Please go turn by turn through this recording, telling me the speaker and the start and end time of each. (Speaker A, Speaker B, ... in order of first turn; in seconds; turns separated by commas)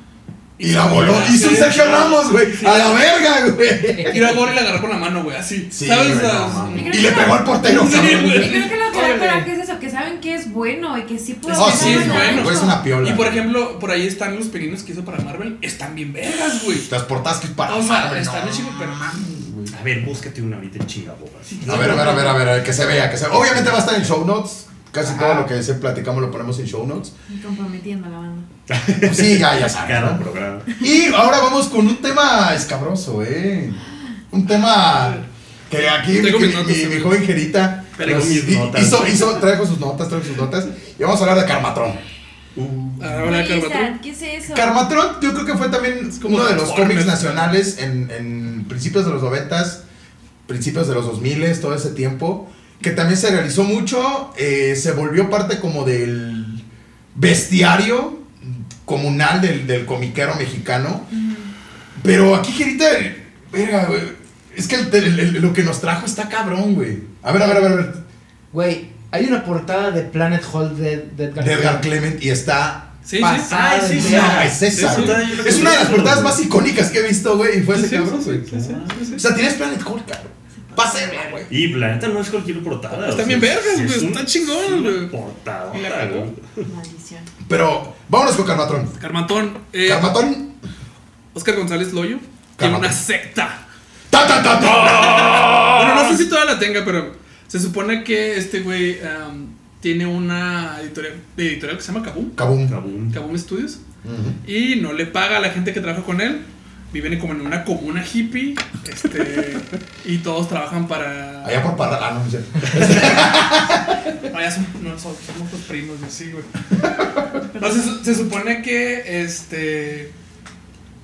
Speaker A: 0.6-3.0, Speaker B: 0.6-4.5, Speaker C: 0.9-1.5, Speaker A: 4.0-8.7, Speaker B: 5.7-8.7, Speaker D: 6.6-12.8, Speaker E: 8.8-9.5, Speaker A: 11.5-16.9, Speaker B: 11.5-13.5, Speaker B: 16.8-19.7, Speaker A: 17.6-19.2, Speaker C: 19.7-22.3, Speaker A: 21.5-22.4, Speaker B: 21.6-27.1, Speaker C: 23.3-23.9, Speaker D: 27.3-28.4, Speaker C: 28.7-30.7, Speaker B: 29.0-30.2, Speaker B: 30.8-42.0, Speaker A: 34.8-35.3, Speaker A: 35.8-37.1, Speaker A: 38.0-38.4, Speaker C: 38.0-39.4, Speaker C: 42.5-43.3, Speaker A: 43.0-44.0, Speaker D: 43.2-44.9, Speaker B: 44.5-49.8, Speaker A: 46.2-47.4, Speaker B: 50.5-56.6, Speaker B: 57.1-61.1, Speaker D: 61.1-61.5, Speaker B: 62.0-68.0, Speaker E: 68.5-71.9, Speaker B: 71.4-72.9, Speaker A: 73.0-75.8, Speaker E: 73.2-74.5, Speaker C: 73.5-76.4, Speaker B: 74.0-81.5, Speaker A: 77.7-79.2, Speaker D: 80.7-81.5, Speaker C: 81.5-86.6, Speaker A: 82.9-85.1, Speaker A: 85.7-86.3, Speaker D: 86.6-87.3, Speaker B: 87.5-88.9, Speaker A: 89.0-90.2, Speaker B: 89.8-90.5, Speaker A: 91.3-93.6, Speaker B: 92.6-93.0, Speaker B: 94.1-96.2, Speaker A: 94.8-102.4, Speaker B: 102.4-102.7, Speaker C: 102.7-103.2, Speaker A: 103.1-103.8, Speaker B: 104.0-104.4, Speaker A: 104.4-111.7, Speaker B: 111.4-113.9, Speaker A: 114.3-116.5, Speaker D: 117.5-117.9, Speaker A: 117.6-120.1